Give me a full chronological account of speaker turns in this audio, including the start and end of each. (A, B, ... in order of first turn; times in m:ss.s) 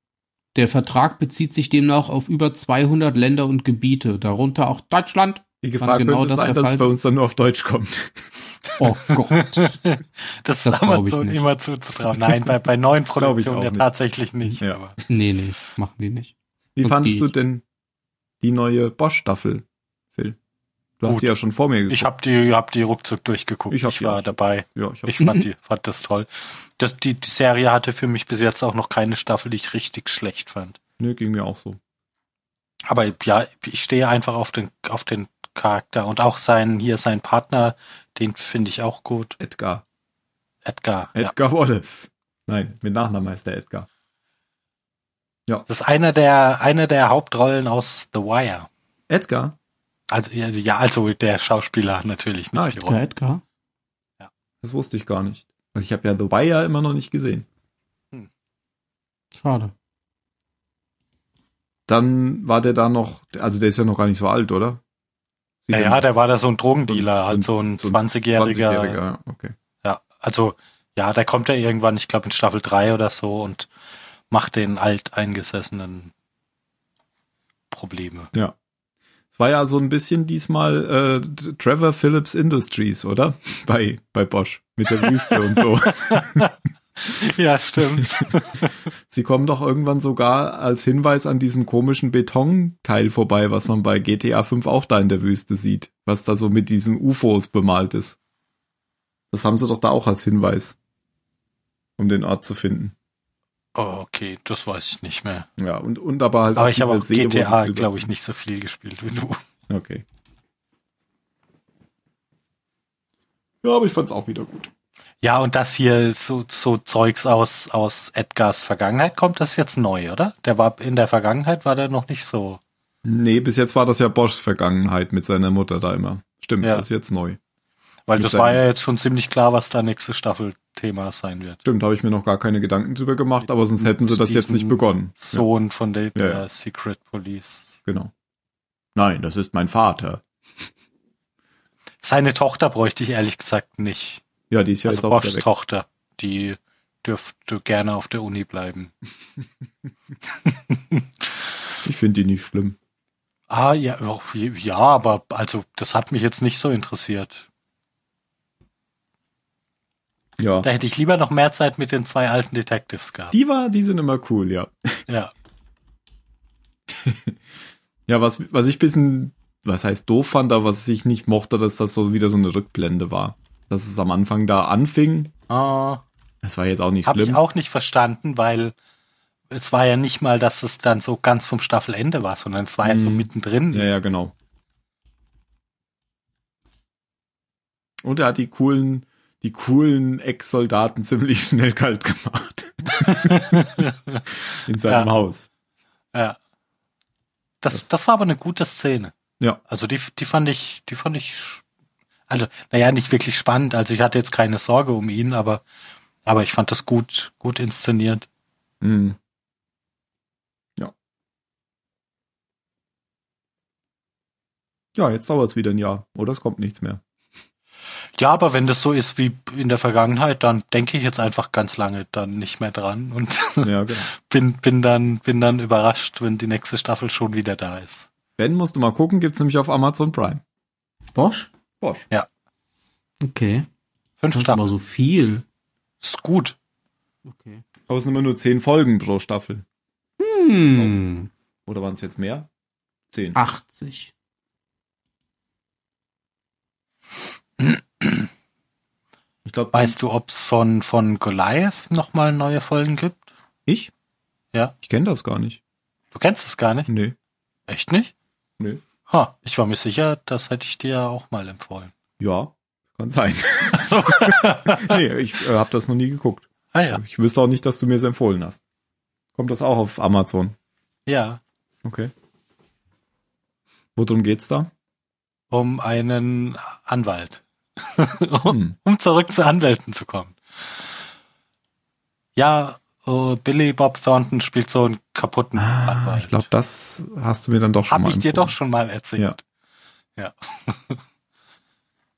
0:00.5-0:06.9 A
0:05.6-0:08.3 B
0:08.8-0:09.8 A
0:09.8-0:15.0 C
0:10.6-0:11.4 A
0:13.2-0:13.9 B
0:15.1-0:17.3 A
0:16.8-0:17.6 B
0:18.4-0:20.4 B
0:21.0-0:22.1 B
0:21.9-0:30.8 C
0:23.7-0:25.2 B
0:31.0-0:31.8 B
0:32.9-0:39.4 C
0:39.4-0:39.8 B
0:40.6-0:41.3 C
0:41.1-0:43.9 B
0:45.7-0:48.7 C
0:49.1-0:49.6 B
0:50.1-0:53.0 C
0:52.8-0:53.4 A
0:54.6-0:57.4 B
0:59.3-0:59.7 A
1:01.9-1:04.8 B
1:05.7-1:06.0 B
1:05.7-1:09.0 C
1:06.9-1:09.5 B
1:09.8-1:13.7 C
1:14.3-1:16.1 C
1:17.7-1:18.3 C
1:19.3-1:26.5 B
1:25.0-1:25.3 C
1:26.1-1:26.5 C
1:27.0-1:28.7 C
1:29.1-1:38.2 B
1:39.3-1:40.8 B
1:42.0-1:42.9 B
1:43.7-1:45.5 C
1:45.6-1:48.0 B
1:46.6-1:49.4 C
1:49.7-1:50.0 B
1:53.6-1:54.7 B
1:55.2-2:02.6 C
2:03.0-2:07.4 B
2:08.1-2:11.6 C
2:08.2-2:08.6 B
2:11.6-2:15.4 B
2:13.4-2:17.8 C
2:16.2-2:16.4 B
2:17.8-2:18.1 B
2:19.0-2:20.2 B
2:22.0-2:24.2 C
2:24.5-2:25.4 B
2:24.8-2:28.9 C
2:30.4-2:31.0 C
2:31.8-2:32.8 B
2:33.5-2:37.4 C
2:40.4-2:40.7 B
2:40.6-2:43.3 C
2:43.3-2:45.0 B
2:46.9-2:47.4 B
2:48.1-2:55.3 B
2:55.5-2:56.0 C
2:56.4-2:57.4 B
2:57.0-2:58.7 C
2:59.5-3:03.9 C
3:02.8-3:04.3 B
3:08.0-3:13.8 B
3:13.3-3:14.2 C
3:14.6-3:15.5 B
3:17.6-3:19.1 C
3:19.7-3:21.6 C
3:22.3-3:25.6 C
3:26.2-3:28.3 C
3:28.8-3:29.2 B
3:35.0-3:37.0 B
3:38.2-3:48.1 C
3:43.6-3:44.1 B
3:48.4-3:50.4 B
3:51.1-3:51.5 A
3:51.8-3:52.1 B
3:53.2-3:53.7 A
3:54.2-3:54.7 C
3:54.3-3:55.4 A
3:56.0-3:56.6 C
3:57.2-3:57.6 A
3:57.9-3:59.6 B
4:00.2-4:01.3 A
4:01.6-4:02.5 B
4:03.1-4:03.4 B
4:03.3-4:04.1 A
4:07.6-4:08.3 C
4:09.4-4:10.0 B
4:09.7-4:13.2 C
4:14.8-4:15.6 B
4:16.1-4:16.9 C
4:16.9-4:17.2 B
4:17.7-4:18.1 C
4:19.1-4:21.9 C
4:22.2-4:28.6 B
4:23.7-4:25.0 C
4:26.7-4:27.0 C
4:29.3-4:30.5 B
4:31.1-4:31.4 C
4:31.8-4:32.1 B
4:34.0-4:34.7 B
4:35.5-4:40.4 C
4:38.4-4:38.7 B
4:42.4-4:46.4 C
4:45.6-4:48.5 B
4:47.9-4:49.4 C
4:50.2-4:51.0 C